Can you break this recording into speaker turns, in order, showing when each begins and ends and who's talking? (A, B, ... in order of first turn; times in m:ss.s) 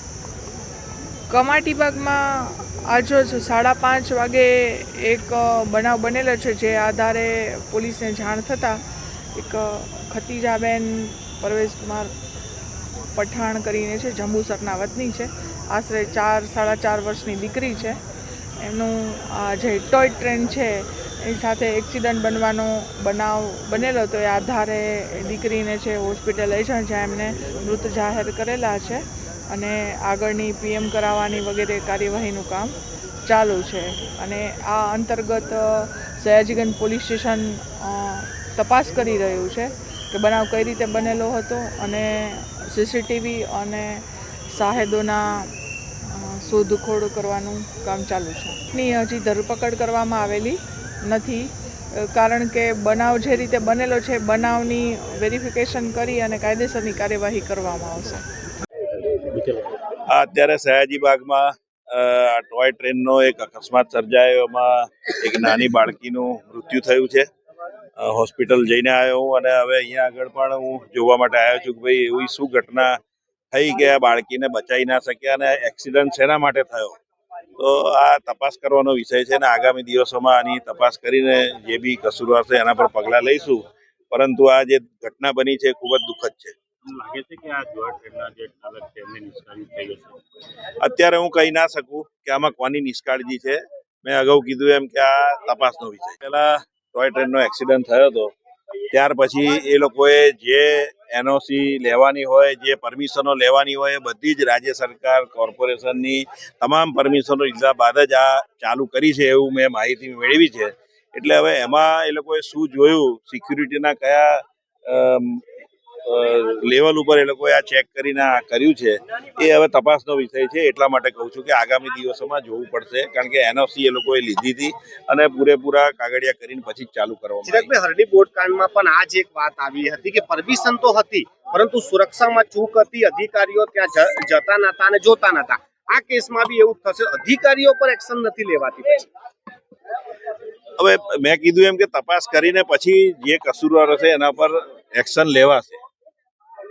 0:01.3-0:08.8 A
0:09.3-0:12.1 A
0:13.1-0:18.0 A
0:18.6-0:32.7 A
0:33.3-0:45.5 A
0:46.1-0:51.5 A
0:52.0-0:58.2 A
1:00.1-1:07.3 B
1:08.0-1:13.0 B
1:13.5-1:17.0 B
1:17.6-1:26.5 B
1:26.8-1:30.2 C
1:30.8-1:38.3 B
1:38.9-1:55.4 B
1:56.0-2:07.7 B
2:07.4-2:19.1 D
2:20.8-2:25.8 B